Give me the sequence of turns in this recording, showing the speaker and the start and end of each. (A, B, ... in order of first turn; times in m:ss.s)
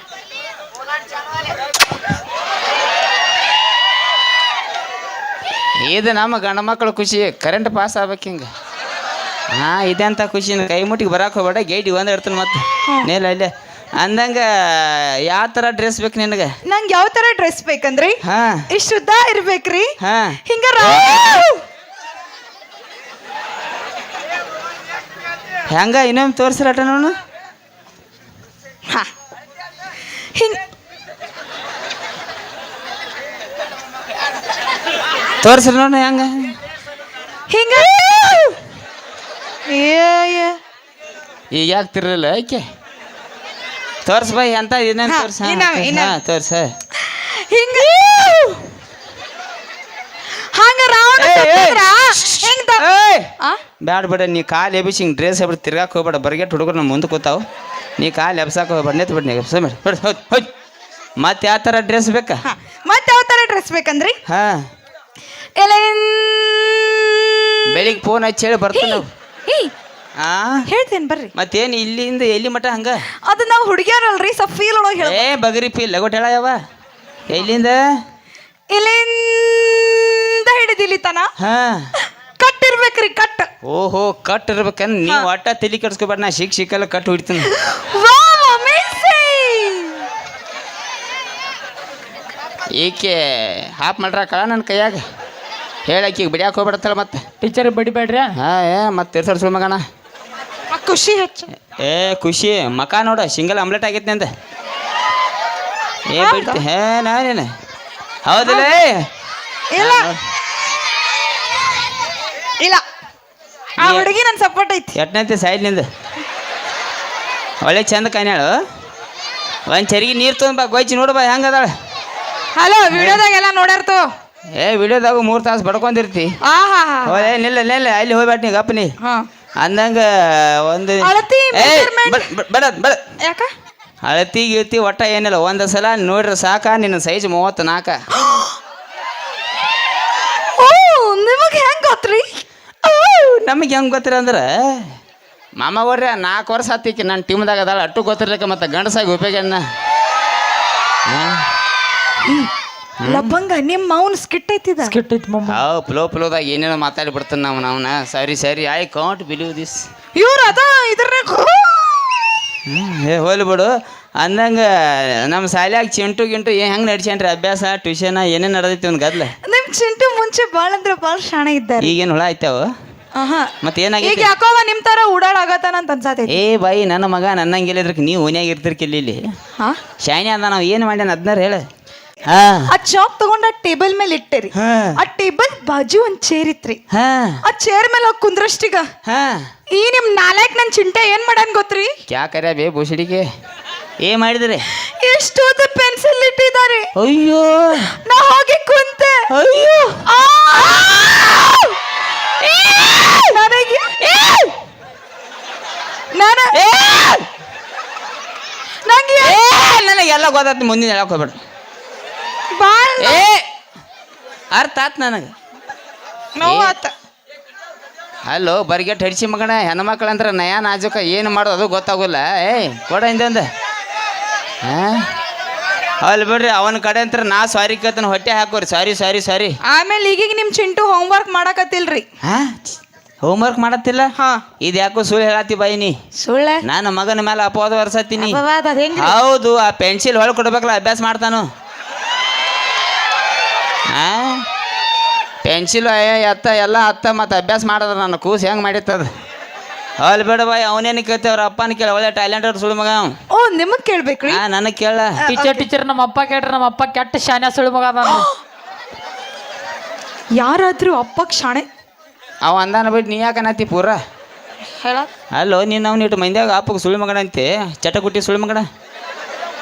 0:05.8-0:08.5 A
0:09.5-0:16.5 A
0:16.6-0:18.2 B
0:18.2-0:18.6 A
0:18.7-0:19.9 B
0:20.0-0:20.4 A
0:20.4-0:21.6 B
0:25.7-0:27.2 A
0:30.4-0:30.6 B
0:35.4-0:36.5 A
0:37.5-0:38.6 B
0:39.7-0:40.6 B
0:41.5-0:42.6 A
0:44.0-0:46.7 A
0:45.1-0:46.1 B
0:47.0-0:48.6 B
0:47.7-0:48.3 A
0:50.3-0:52.8 B
0:51.2-0:53.3 A
0:53.8-0:57.4 A
0:58.0-1:00.5 A
1:01.2-1:02.4 A
1:02.4-1:04.2 B
1:04.3-1:04.6 A
1:05.6-1:07.9 B
1:07.7-1:09.1 A
1:08.7-1:09.7 B
1:10.2-1:10.6 A
1:10.7-1:11.3 B
1:11.4-1:13.0 A
1:13.3-1:15.3 B
1:15.0-1:16.6 A
1:17.3-1:17.8 A
1:18.7-1:21.3 B
1:21.4-1:21.9 A
1:22.4-1:23.5 B
1:23.6-1:27.5 A
1:27.4-1:30.1 B
1:32.8-1:35.0 A
1:35.9-1:37.2 A
1:37.4-1:38.4 C
1:38.4-1:39.8 A
1:40.7-1:41.5 B
1:41.8-1:44.3 A
1:46.1-1:47.5 A
1:46.2-1:46.6 B
1:48.3-1:49.1 A
1:49.7-1:50.1 B
1:49.8-1:50.2 A
1:53.8-1:54.9 B
1:53.8-1:54.1 A
1:55.0-1:55.9 A
1:57.6-1:58.6 A
1:59.7-2:01.7 A
2:02.6-2:04.1 B
2:02.9-2:03.2 A
2:04.6-2:06.4 A
2:06.4-2:07.3 B
2:07.0-2:08.9 A
2:09.0-2:09.3 B
2:09.6-2:13.0 A
2:11.0-2:12.2 B
2:13.2-2:13.5 B
2:14.0-2:18.0 A
2:18.2-2:18.5 B
2:20.6-2:22.4 B
2:22.8-2:24.9 A
2:25.6-2:29.6 A
2:31.1-2:31.4 A
2:32.2-2:32.5 B
2:33.0-2:33.4 A
2:33.0-2:35.0 B
2:34.8-2:35.6 C
2:35.5-2:39.8 A
2:40.2-2:42.3 B
2:42.7-2:49.3 A
2:49.4-2:51.9 B
2:51.8-2:52.7 A
2:53.2-2:56.4 B
2:53.6-2:54.3 A
2:56.3-2:59.2 A
3:00.0-3:01.6 A
3:02.3-3:02.7 A
3:02.7-3:06.8 B
3:04.5-3:05.0 A
3:06.9-3:07.4 A
3:07.4-3:08.9 B
3:09.1-3:09.4 A
3:09.7-3:11.9 B
3:12.1-3:13.3 A
3:14.0-3:14.6 A
3:14.8-3:16.9 B
3:17.0-3:17.9 A
3:17.9-3:19.2 B
3:19.3-3:21.4 A
3:20.0-3:21.7 B
3:22.4-3:23.3 A
3:23.3-3:24.0 B
3:24.0-3:24.5 A
3:26.1-3:26.6 B
3:26.5-3:27.2 A
3:28.8-3:29.4 B
3:29.2-3:31.4 A
3:32.6-3:33.2 B
3:33.0-3:33.4 A
3:34.5-3:35.3 A
3:36.4-3:36.9 B
3:36.4-3:36.7 A
3:38.3-3:43.5 A
3:44.6-3:45.1 A
3:46.0-3:49.6 A
3:49.6-3:52.1 B
3:52.2-3:56.0 A
3:54.2-3:54.4 B
3:56.2-3:56.6 B
3:56.6-3:58.4 A
3:58.2-3:59.2 B
3:59.0-4:01.5 A
4:03.9-4:04.5 A
4:05.4-4:09.1 A
4:10.0-4:13.1 A
4:13.3-4:14.4 B
4:14.3-4:15.1 A
4:15.2-4:18.3 C
4:15.3-4:15.7 B
4:20.4-4:21.7 B
4:22.4-4:24.0 A
4:24.8-4:25.1 B
4:25.3-4:28.7 A